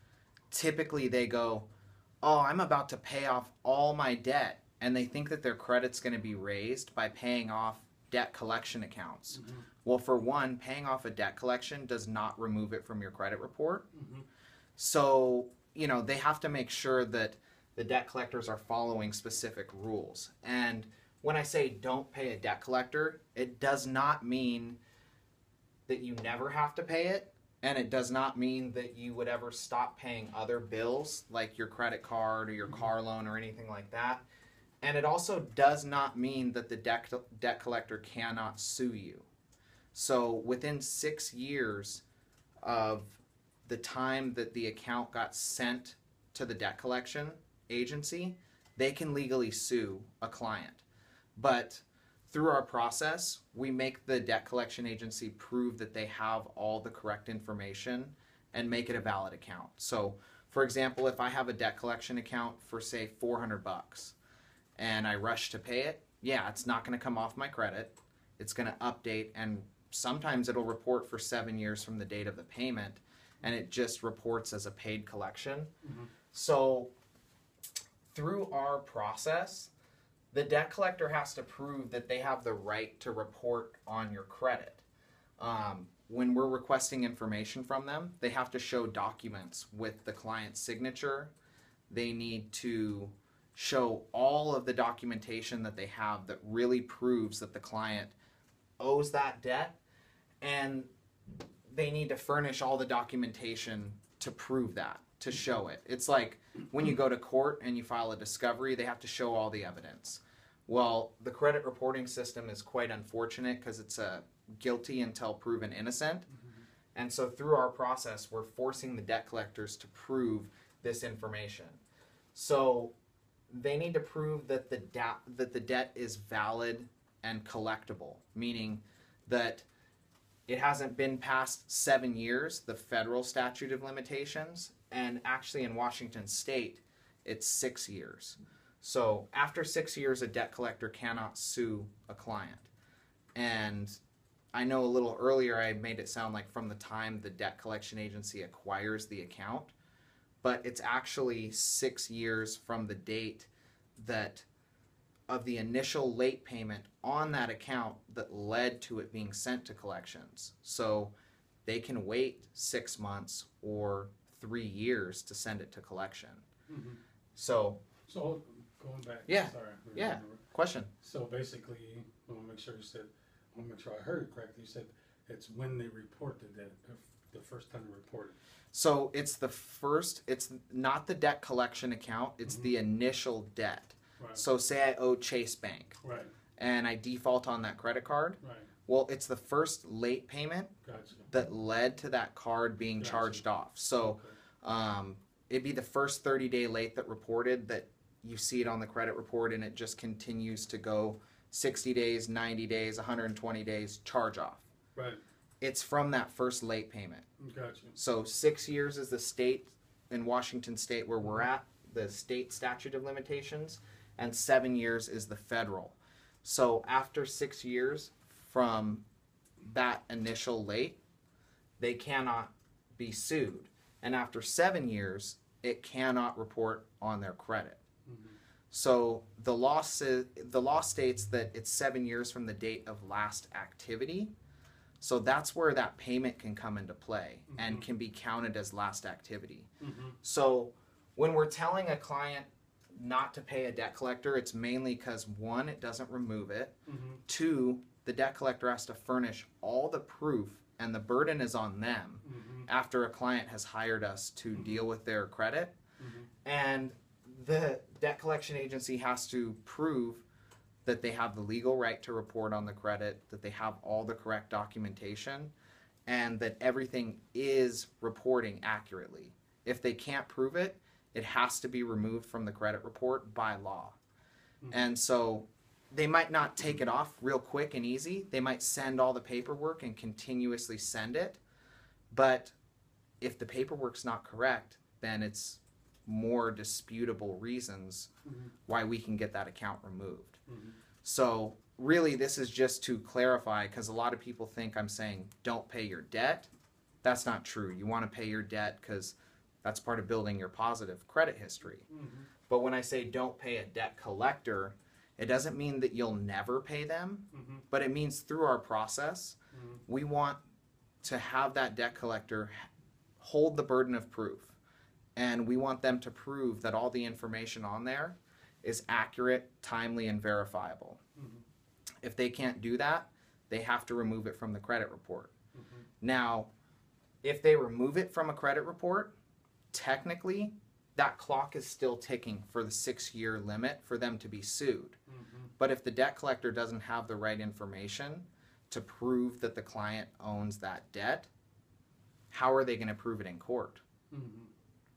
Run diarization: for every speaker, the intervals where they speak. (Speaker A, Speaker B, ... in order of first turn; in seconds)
Speaker A: 0.5-1.7, 2.2-13.9, 14.8-24.8, 25.9-34.2, 34.8-39.3, 39.9-42.0, 42.6-50.8, 51.4-64.2, 64.8-75.7, 76.3-76.9, 78.1-79.7, 80.3-84.8, 85.4-91.3, 91.9-98.1, 98.8-99.8, 100.4-100.9, 101.7-116.3, 116.9-121.8, 122.3-122.9, 123.5-129.7, 130.5-142.7, 143.3-144.0, 144.5-149.7, 150.4-154.4, 155.3-161.1, 161.7-166.4, 167.3-167.8, 169.3-170.9, 178.7-186.0, 186.6-190.7, 191.3-204.7, 205.6-207.2, 207.9-219.0, 219.6-221.0, 221.8-227.8, 228.7-234.3, 235.0-239.7, 240.2-246.7, 247.2-255.7, 256.4-260.2, 260.8-265.5, 266.1-273.9, 274.7-281.4, 282.1-282.6, 283.2-288.1, 288.7-290.4, 291.0-296.5, 297.0-301.9, 302.5-310.4, 311.0-312.7, 313.2-314.6, 315.1-321.0, 322.0-325.3, 326.0-326.5, 327.2-329.1, 329.7-335.0, 335.6-341.3, 342.3-343.8
Speaker B: 9.4-9.6, 13.9-14.2, 75.8-76.1, 166.7-167.0, 168.1-170.4, 171.0-178.3, 182.4-182.7, 186.0-186.3, 188.4-188.7, 190.8-191.3, 193.0-193.4, 194.0-194.4, 204.9-205.2, 207.4-208.0, 228.1-228.4, 237.5-237.8, 239.8-240.2, 246.9-247.2, 252.2-252.7, 254.5-254.8, 256.0-256.3, 288.2-288.5, 290.5-290.8, 301.9-302.3, 307.3-307.6, 321.2-321.4, 325.5-325.9, 335.1-335.5, 344.1-344.5